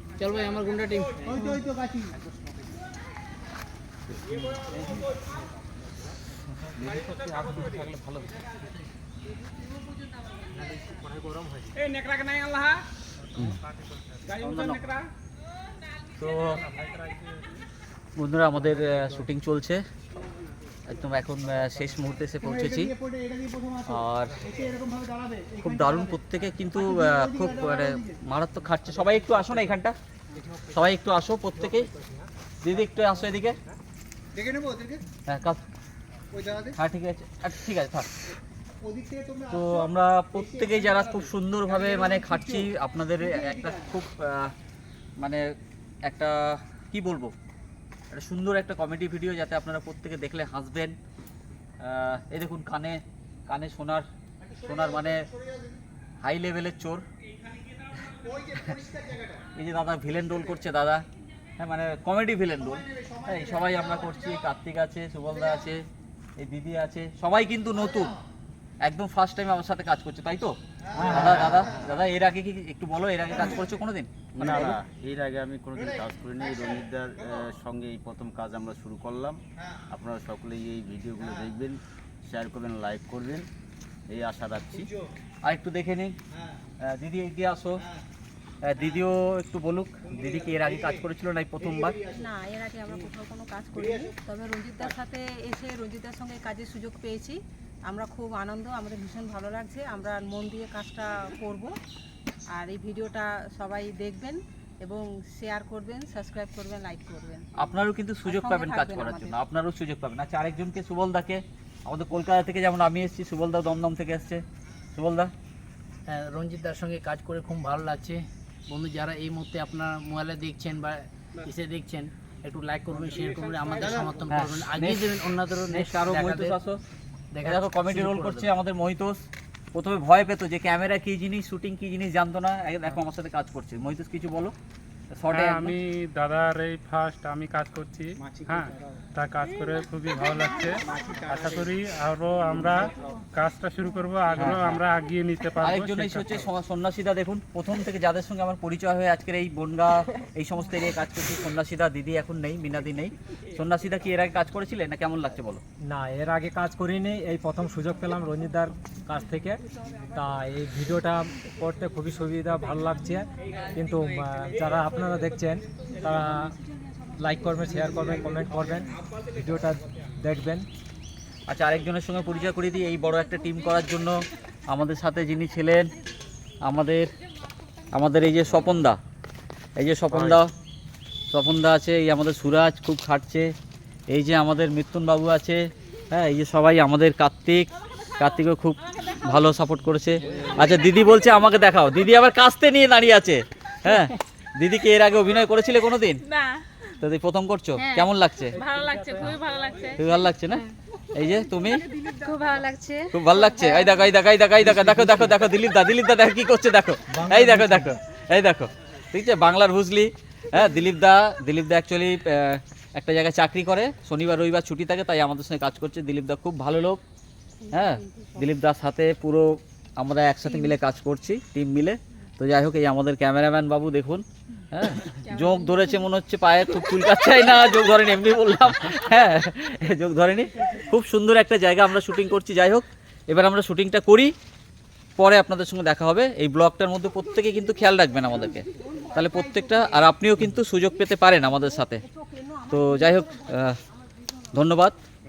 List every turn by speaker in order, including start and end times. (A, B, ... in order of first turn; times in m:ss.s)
0:00.2-0:01.5 A
0:01.2-0:02.1 B
0:04.7-0:05.0 C
0:06.8-0:08.3 C
0:10.7-0:11.7 A
0:11.9-0:12.4 C
0:14.3-0:15.0 C
0:16.2-0:16.6 C
0:18.2-0:19.8 C
0:20.9-0:22.9 C
0:22.4-0:26.2 B
0:23.9-0:24.4 C
0:25.6-0:30.0 C
0:26.7-0:28.2 B
0:30.7-0:31.9 C
0:32.6-0:33.6 C
0:34.3-0:35.0 B
0:35.3-0:35.6 C
0:36.3-0:36.8 B
0:36.8-0:38.1 C
0:38.8-0:44.0 B
0:39.5-0:44.5 C
0:45.2-0:45.5 C
0:46.0-0:47.3 C
0:48.1-0:51.0 C
0:51.8-0:54.0 C
0:54.4-0:55.8 B
0:54.6-0:55.2 C
0:56.2-0:57.0 C
0:57.9-0:59.4 B
0:59.5-1:01.0 C
1:01.6-1:05.8 C
1:02.5-1:04.5 B
1:05.2-1:05.7 B
1:06.4-1:08.2 C
1:07.7-1:08.2 B
1:08.8-1:10.5 C
1:10.8-1:12.0 B
1:11.0-1:11.8 D
1:11.1-1:14.7 C
1:13.3-1:13.7 B
1:14.3-1:19.4 D
1:14.4-1:14.8 B
1:15.7-1:17.5 B
1:19.6-1:19.8 B
1:19.9-1:23.5 D
1:21.2-1:21.5 B
1:24.1-1:24.9 D
1:24.7-1:25.1 B
1:25.4-1:26.2 C
1:26.3-1:26.6 B
1:26.8-1:27.8 C
1:27.8-1:28.0 B
1:28.6-1:32.0 C
1:28.8-1:29.1 B
1:30.0-1:32.3 B
1:32.1-1:41.7 E
1:33.7-1:34.1 B
1:42.5-1:47.5 E
1:47.6-1:54.4 C
1:48.2-1:49.4 E
1:54.9-1:55.3 C
1:56.1-2:06.6 A
2:03.8-2:04.1 B
2:04.3-2:06.8 C
2:07.3-2:08.5 A
2:07.4-2:14.5 C
2:15.1-2:15.8 C
2:15.3-2:26.4 F
2:18.2-2:19.0 B
2:20.8-2:21.7 B
2:22.6-2:22.9 B
2:24.3-2:24.8 C
2:25.6-2:35.6 C
2:35.8-2:46.5 G
2:47.2-2:50.7 G
2:51.5-2:55.9 C
2:56.6-2:57.1 C
2:57.9-2:59.0 C
2:59.8-3:00.5 C
3:01.3-3:03.5 C
3:04.1-3:16.2 C
3:10.4-3:10.7 G
3:17.0-3:18.6 C
3:18.6-3:20.0 H
3:18.6-3:19.6 G
3:19.9-3:21.8 C
3:22.0-3:23.8 H
3:22.2-3:22.7 E
3:23.1-3:37.0 C
3:24.7-3:25.1 B
3:27.1-3:28.0 B
3:37.6-3:38.5 E
3:37.7-3:54.3 C
3:45.3-3:45.9 E
3:55.2-4:02.0 C
3:58.6-4:00.0 E
4:01.8-4:04.4 E
4:02.7-4:03.8 C
4:04.5-4:05.0 C